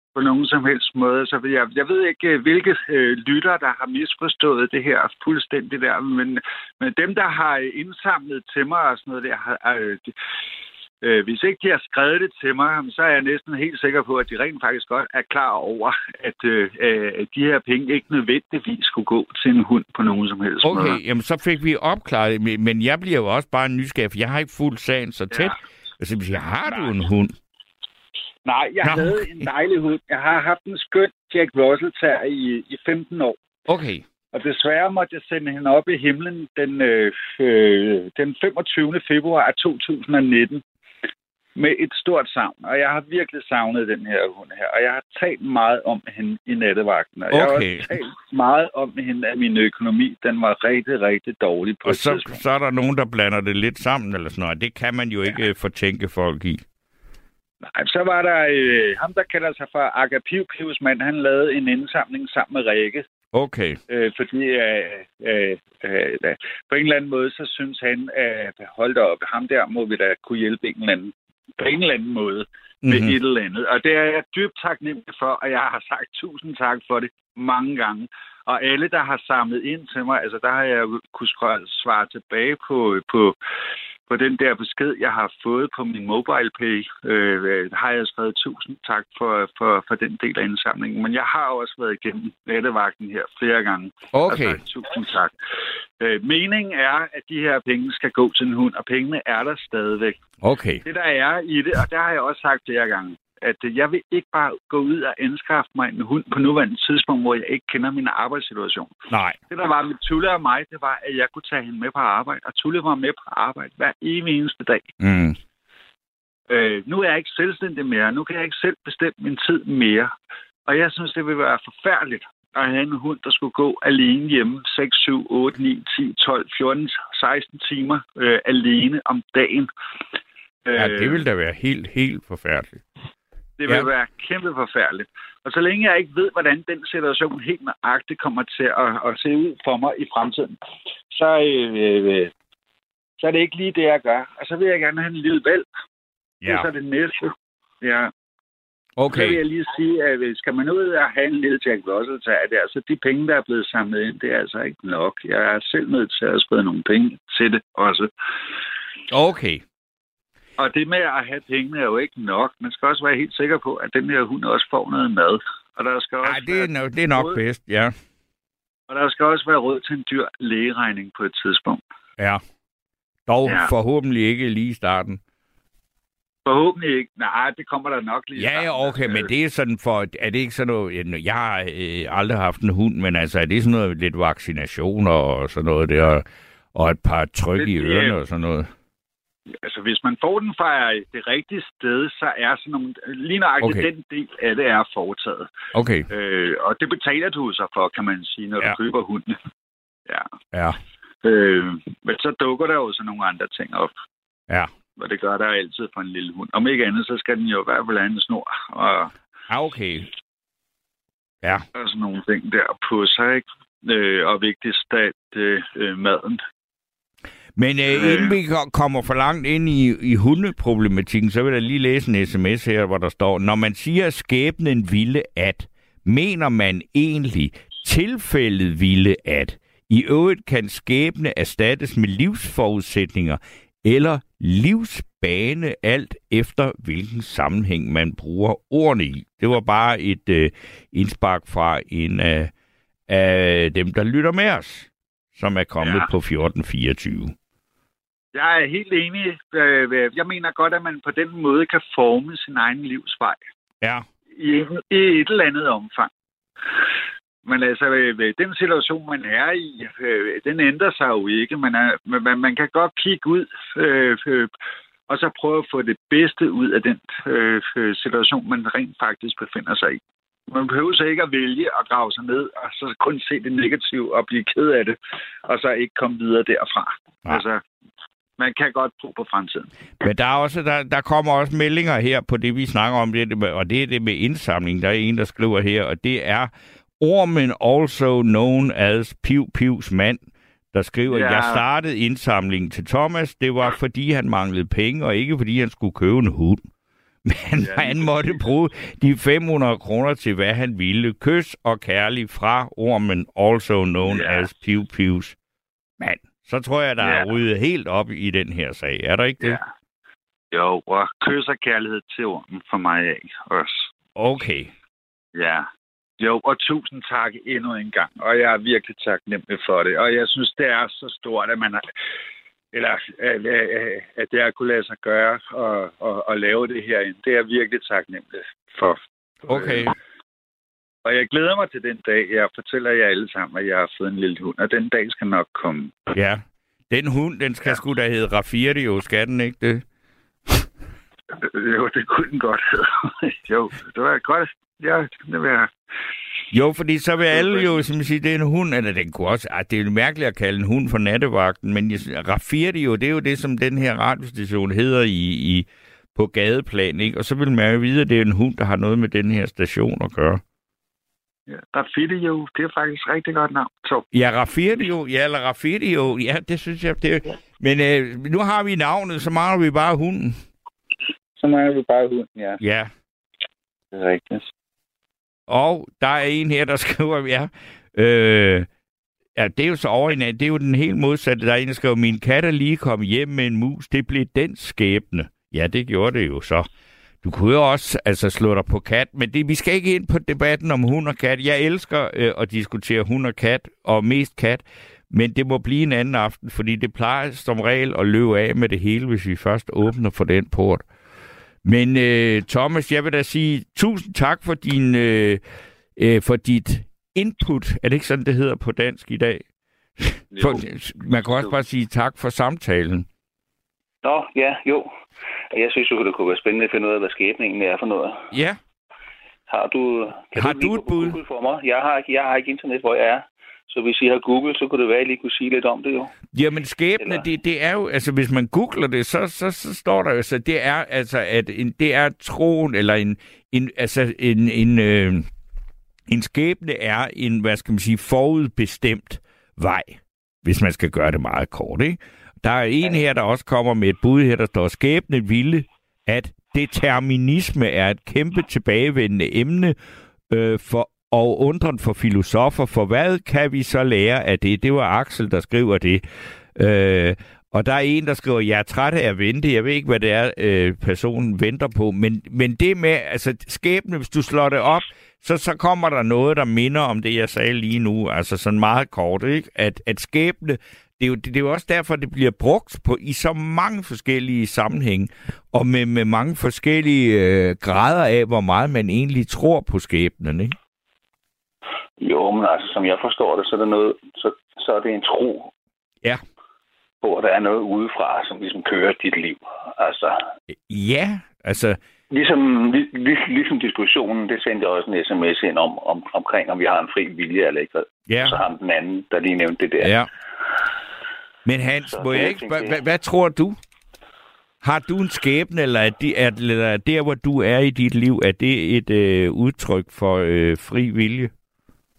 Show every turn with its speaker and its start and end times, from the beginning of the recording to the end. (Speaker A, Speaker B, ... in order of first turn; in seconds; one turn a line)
Speaker A: 0.1-10.1
Speaker A: 11.0-21.0
Speaker B: 20.6-27.3
Speaker A: 28.4-33.4
Speaker B: 28.8-29.1
Speaker B: 33.7-34.1
Speaker A: 34.3-40.6
Speaker A: 41.6-52.4
Speaker B: 47.3-47.9
Speaker B: 51.9-56.6
Speaker A: 57.6-63.1
Speaker B: 63.3-63.8
Speaker A: 63.9-83.4
Speaker B: 72.8-73.2
Speaker A: 84.1-95.3
Speaker B: 94.1-94.6
Speaker A: 96.0-100.2
Speaker B: 100.4-100.8
Speaker A: 100.8-108.9
Speaker B: 109.1-109.4
Speaker A: 109.5-114.9
Speaker B: 115.0-115.4
Speaker A: 116.5-120.1
Speaker A: 120.7-129.7
Speaker A: 130.7-131.2
Speaker B: 130.7-132.8
Speaker A: 133.6-140.6
Speaker A: 141.1-142.3
Speaker A: 143.2-145.7
Speaker A: 146.4-148.1
Speaker B: 149.0-149.4
Speaker A: 149.1-158.1
Speaker B: 159.1-159.6
Speaker A: 160.6-167.4
Speaker B: 166.2-167.9
Speaker A: 168.9-171.8
Speaker B: 173.3-175.2
Speaker A: 173.4-173.7
Speaker A: 176.4-179.3
Speaker B: 178.4-188.7
Speaker A: 187.6-188.1
Speaker A: 189.6-195.5
Speaker B: 195.7-196.1
Speaker A: 196.1-199.4
Speaker B: 200.5-200.8
Speaker A: 201.2-203.9
Speaker A: 205.0-209.1
Speaker B: 209.5-210.1
Speaker A: 211.7-216.4
Speaker B: 217.6-242.5
Speaker A: 217.9-218.4
Speaker B: 243.1-247.3
Speaker A: 245.8-246.1
Speaker A: 248.3-253.4
Speaker A: 254.4-256.1
Speaker A: 257.4-264.5
Speaker A: 265.1-277.6
Speaker A: 278.4-279.7
Speaker B: 280.0-290.2
Speaker B: 290.7-296.6
Speaker A: 291.1-291.6
Speaker B: 297.3-305.4
Speaker A: 297.6-298.5
Speaker A: 304.0-304.4
Speaker B: 306.0-309.6
Speaker A: 307.0-307.3
Speaker A: 310.5-313.9
Speaker B: 314.1-314.7
Speaker A: 315.4-315.7
Speaker A: 316.2-321.8
Speaker A: 322.7-329.9
Speaker B: 329.5-329.9
Speaker A: 331.1-336.0
Speaker B: 336.1-339.9
Speaker A: 341.4-345.7
Speaker B: 346.5-360.4
Speaker A: 347.3-347.8
Speaker A: 361.5-364.1
Speaker B: 364.1-370.4
Speaker A: 371.4-372.6
Speaker B: 372.6-372.9
Speaker A: 373.9-374.5
Speaker B: 375.5-378.7
Speaker B: 379.4-386.7
Speaker B: 387.2-400.9
Speaker B: 401.6-405.4
Speaker B: 405.9-409.4
Speaker B: 410.0-413.1
Speaker A: 410.3-410.6
Speaker C: 414.0-414.9
Speaker C: 415.5-418.3
Speaker B: 418.3-418.6
Speaker C: 419.5-426.1
Speaker B: 420.4-421.2
Speaker B: 426.3-435.3
Speaker B: 436.1-449.8
Speaker B: 450.3-456.0
Speaker B: 456.6-480.6
Speaker C: 482.0-485.5
Speaker C: 487.0-490.2
Speaker B: 490.7-491.8
Speaker C: 492.1-499.9
Speaker B: 498.1-498.4
Speaker B: 499.8-500.1
Speaker B: 501.4-503.6
Speaker C: 501.9-502.8
Speaker B: 504.6-511.3